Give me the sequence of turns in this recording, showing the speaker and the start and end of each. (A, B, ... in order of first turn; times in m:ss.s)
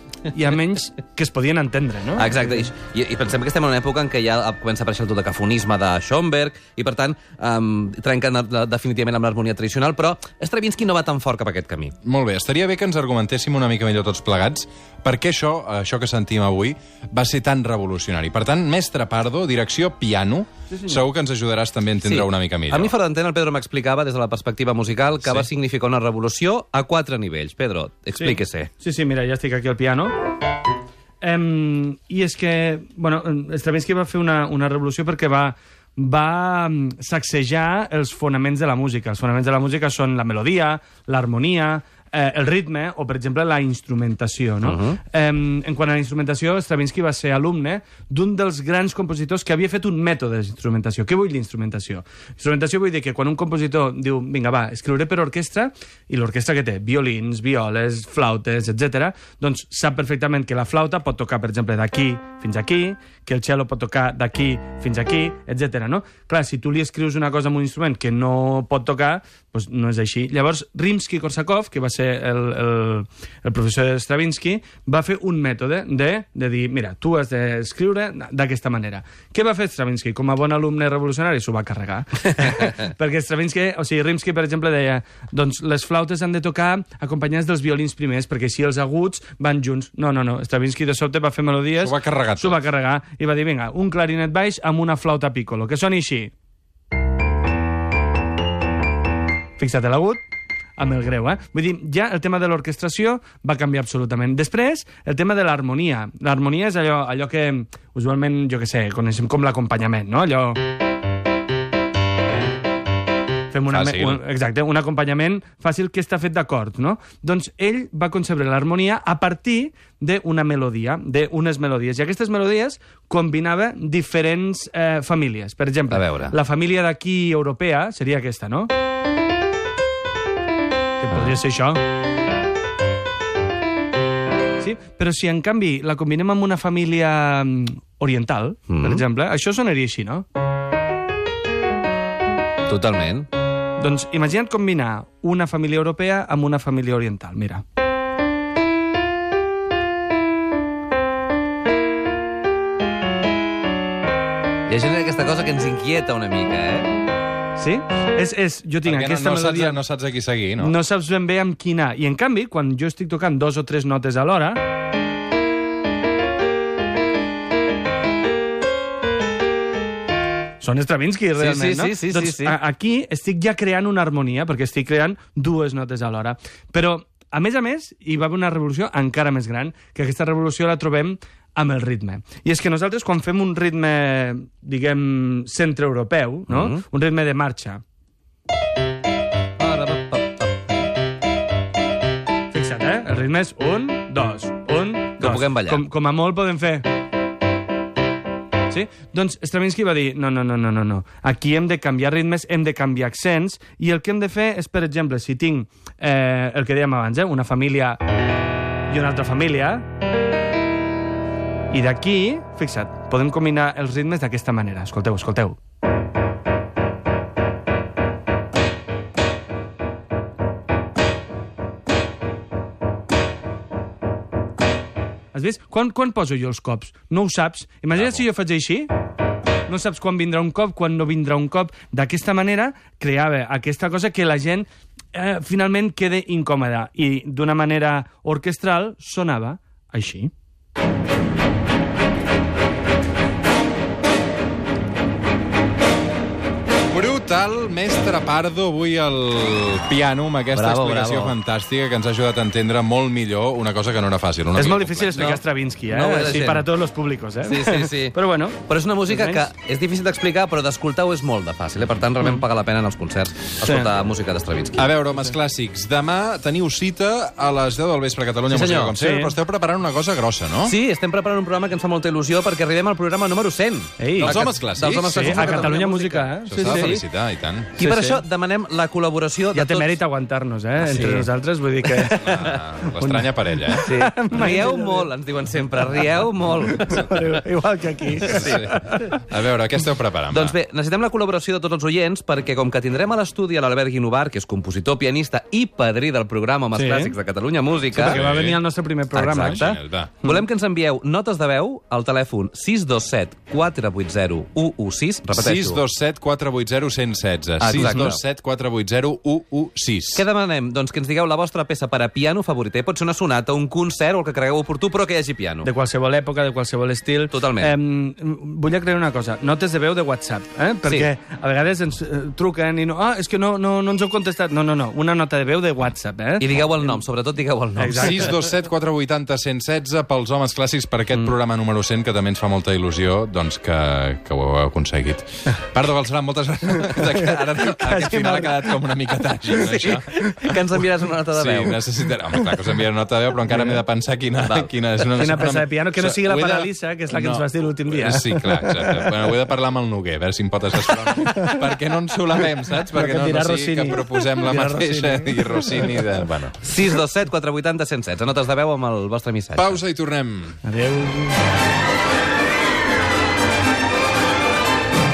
0:00.3-0:02.7 A
0:02.2-0:11.9 B
0:12.0-0:23.0 C
0:20.7-0:21.0 A
0:22.0-0:28.7 B
0:28.2-0:30.2 A
0:31.2-1:36.3 A
0:44.6-0:45.0 B
1:31.8-1:32.6 C
1:39.6-1:40.2 A
1:40.8-1:50.6 A
1:53.5-2:08.7 A
1:53.7-1:54.2 C
2:05.9-2:06.4 B
2:11.0-2:11.8 A
2:14.6-2:20.2 A
2:18.7-2:19.0 B
2:22.7-2:23.3 B
2:23.8-2:27.6 A
2:34.7-2:36.9 B
2:37.6-2:39.8 A
2:38.8-2:40.8 C
2:40.6-2:44.6 A
2:50.6-3:07.8 A
2:51.4-2:52.6 B
3:06.5-3:06.8 B
3:09.6-3:10.8 B
3:12.5-3:16.9 A
3:15.2-3:15.8 B
3:18.7-3:28.0 A
3:28.9-3:29.8 A
3:31.7-3:35.6 A
3:45.3-3:48.9 A
3:48.0-3:48.2 C
3:49.7-4:00.3 A
4:06.9-4:15.3 C
4:10.5-4:11.4 B
4:14.6-4:19.5 A
4:15.2-4:16.7 B
4:17.4-4:24.9 B
4:23.6-4:23.9 A
4:24.8-4:30.7 C
4:28.5-4:29.0 B
4:29.0-4:29.4 A
4:30.6-4:37.0 B
4:34.0-4:34.5 A
4:34.2-4:35.8 C
4:35.1-4:37.0 A
4:36.4-4:37.7 C
4:37.8-4:40.0 B
4:37.8-4:38.2 A
4:39.5-4:45.1 A
4:40.8-4:41.3 B
4:41.8-4:42.6 B
4:42.1-4:43.9 C
4:43.8-4:47.4 B
4:46.6-4:49.1 A
4:48.3-4:50.6 C
4:48.3-4:48.7 B
4:50.3-4:58.2 B
4:56.7-4:57.2 A
4:57.9-4:59.6 A
4:58.0-4:58.6 C
4:59.2-5:05.8 B
4:59.4-5:00.1 C
5:05.3-5:10.2 C
5:07.6-5:08.2 B
5:07.8-5:08.1 A
5:10.1-5:15.7 B
5:15.6-5:27.0 A
5:17.3-5:17.8 B
5:20.8-5:21.1 B
5:26.4-5:28.3 B
5:27.8-5:28.3 A
5:27.9-5:40.8 C
5:36.9-5:39.0 A
5:39.5-5:41.8 B
5:39.7-5:40.4 A
5:41.3-5:56.6 C
5:42.3-5:42.7 A
5:43.5-5:43.8 A
5:44.4-5:44.8 B
5:45.2-5:49.3 A
5:50.8-5:51.7 A
5:52.7-5:56.0 A
5:56.6-5:59.8 B
5:59.6-6:00.6 C
6:00.6-6:01.4 A